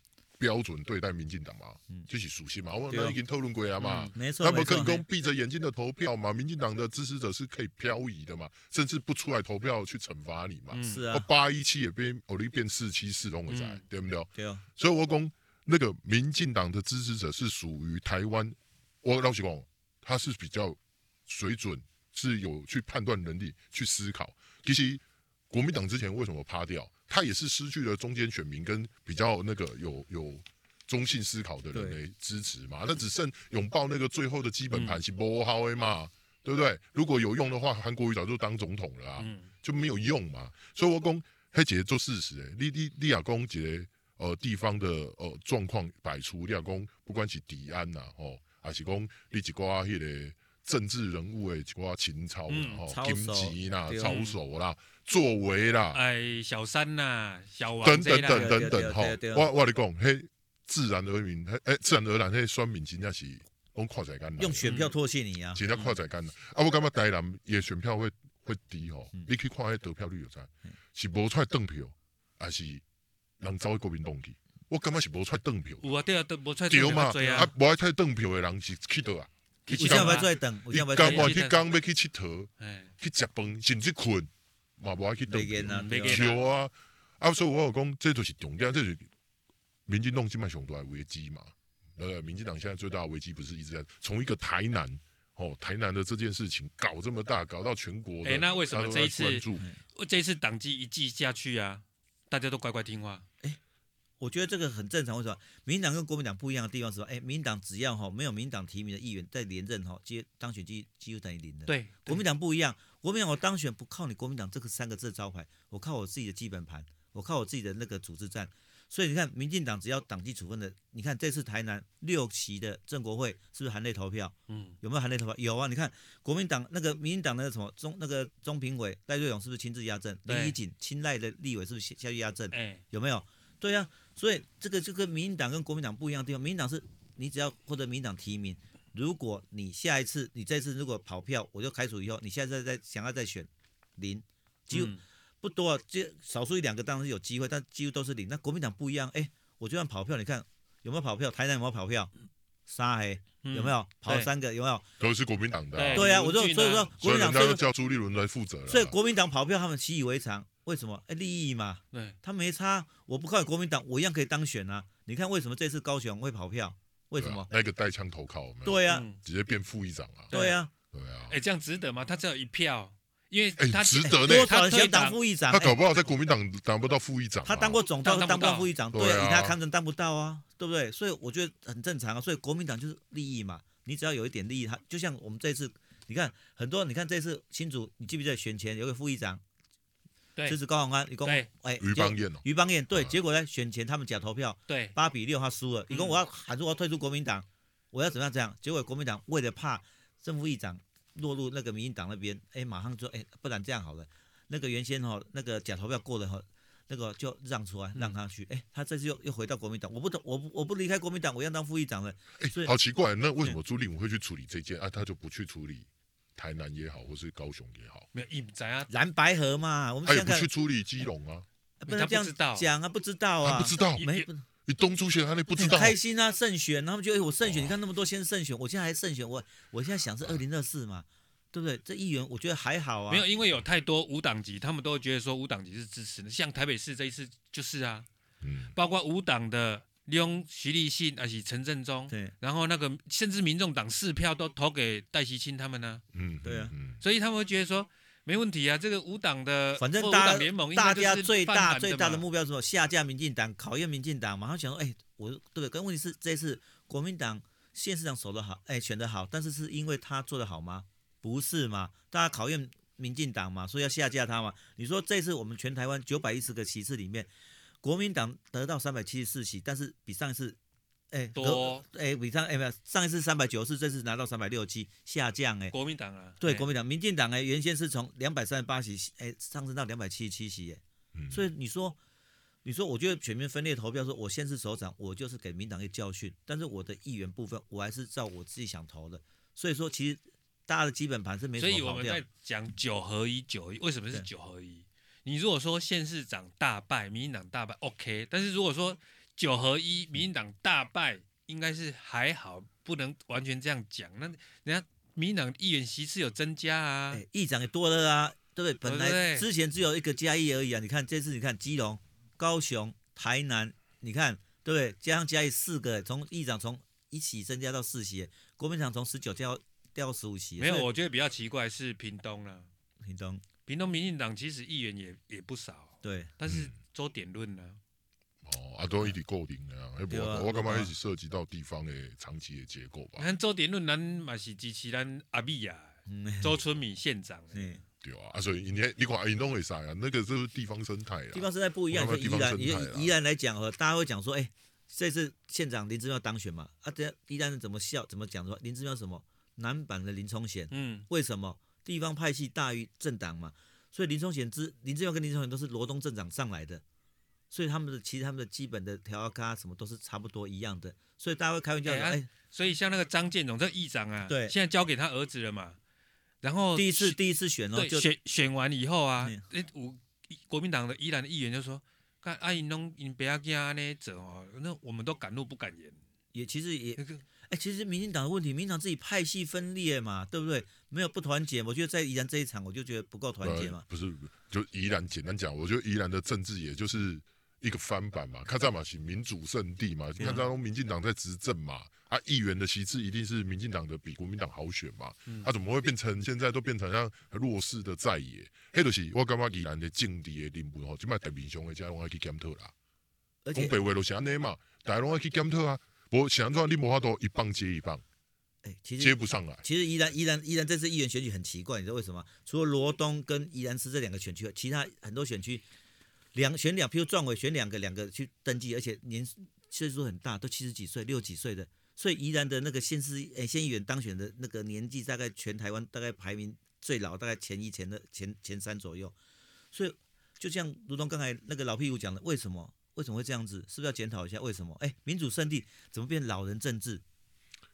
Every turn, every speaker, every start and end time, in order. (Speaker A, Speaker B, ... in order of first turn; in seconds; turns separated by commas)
Speaker A: 0.4-56.0, Speaker B: 2.9-3.2, Speaker C: 3.8-4.1, Speaker B: 4.2-5.0, Speaker C: 10.7-11.0, Speaker B: 10.8-11.3, Speaker C: 13.5-13.8, Speaker B: 14.3-14.6, Speaker B: 31.7-32.0, Speaker C: 34.7-35.0, Speaker C: 39.2-39.5, Speaker C: 52.5-52.8, Speaker B: 52.9-54.2, Speaker C: 54.0-54.4, Speaker C: 55.9-58.6, Speaker A: 57.8-64.7, Speaker B: 58.3-59.5, Speaker B: 64.4-65.6, Speaker C: 64.6-65.0, Speaker A: 65.5-72.8, Speaker A: 73.4-75.9, Speaker C: 75.8-77.5, Speaker A: 76.7-89.1, Speaker C: 79.7-80.3, Speaker B: 79.7-81.3, Speaker C: 81.0-81.6, Speaker C: 82.6-82.9, Speaker B: 85.3-86.3, Speaker C: 85.7-86.4, Speaker A: 89.9-99.7, Speaker C: 98.2-103.3, Speaker B: 104.2-152.1, Speaker C: 111.7-112.2, Speaker C: 124.5-124.8, Speaker C: 130.3-130.6, Speaker C: 132.5-132.8, Speaker C: 144.7-145.0, Speaker B: 152.7-154.8, Speaker C: 153.4-154.3, Speaker A: 155.0-156.1, Speaker C: 155.8-156.9, Speaker B: 155.9-157.6, Speaker A: 156.9-158.9, Speaker B: 158.7-167.5, Speaker A: 167.2-170.3, Speaker B: 168.7-169.1, Speaker C: 168.9-169.2, Speaker C: 170.3-170.6, Speaker B: 170.3-170.7, Speaker A: 170.9-171.4, Speaker C: 171.3-175.2, Speaker A: 173.6-174.5, Speaker B: 174.0-175.8, Speaker A: 175.5-177.8, Speaker B: 177.4-189.4, Speaker C: 178.0-178.7, Speaker A: 178.9-179.6, Speaker B: 190.5-212.7, Speaker A: 191.8-193.2, Speaker C: 194.7-194.9, Speaker C: 195.9-196.2, Speaker A: 212.4-218.1, Speaker C: 218.1-218.9, Speaker B: 218.9-220.5, Speaker A: 220.1-221.5, Speaker B: 221.8-224.4, Speaker C: 221.9-222.7, Speaker A: 223.4-224.1, Speaker C: 224.0-224.2, Speaker A: 224.7-226.0, Speaker B: 225.6-233.2, Speaker A: 227.4-227.8, Speaker C: 233.1-238.1, Speaker A: 238.4-238.7, Speaker C: 238.8-246.0, Speaker A: 246.1-247.0, Speaker B: 246.4-246.7, Speaker C: 247.0-252.2, Speaker B: 249.8-267.3, Speaker B: 267.8-270.6, Speaker B: 271.1-275.7, Speaker C: 271.4-271.9, Speaker C: 275.7-276.7, Speaker B: 276.4-282.0, Speaker A: 281.1-281.4, Speaker B: 282.6-292.2, Speaker C: 291.6-307.2, Speaker B: 307.1-320.9, Speaker C: 308.8-309.5, Speaker C: 320.6-322.7, Speaker B: 323.0-323.4, Speaker C: 323.7-327.8, Speaker B: 326.0-326.3, Speaker A: 326.5-326.7, Speaker A: 328.4-333.3, Speaker B: 330.1-330.9, Speaker C: 333.2-337.8, Speaker B: 336.1-336.6, Speaker B: 337.5-337.8, Speaker A: 338.0-343.1, Speaker B: 341.3-356.8, Speaker C: 350.7-351.1, Speaker B: 357.5-362.3, Speaker C: 361.9-365.8, Speaker B: 364.3-364.5, Speaker C: 366.4-367.2, Speaker B: 366.8-368.1, Speaker C: 367.8-376.0, Speaker B: 376.3-383.8, Speaker C: 377.0-377.2, Speaker A: 383.4-402.7, Speaker C: 390.2-390.5, Speaker B: 403.4-403.7, Speaker A: 403.5-408.0, Speaker B: 408.6-415.6, Speaker A: 409.0-409.6, Speaker B: 416.3-429.2, Speaker B: 429.7-437.0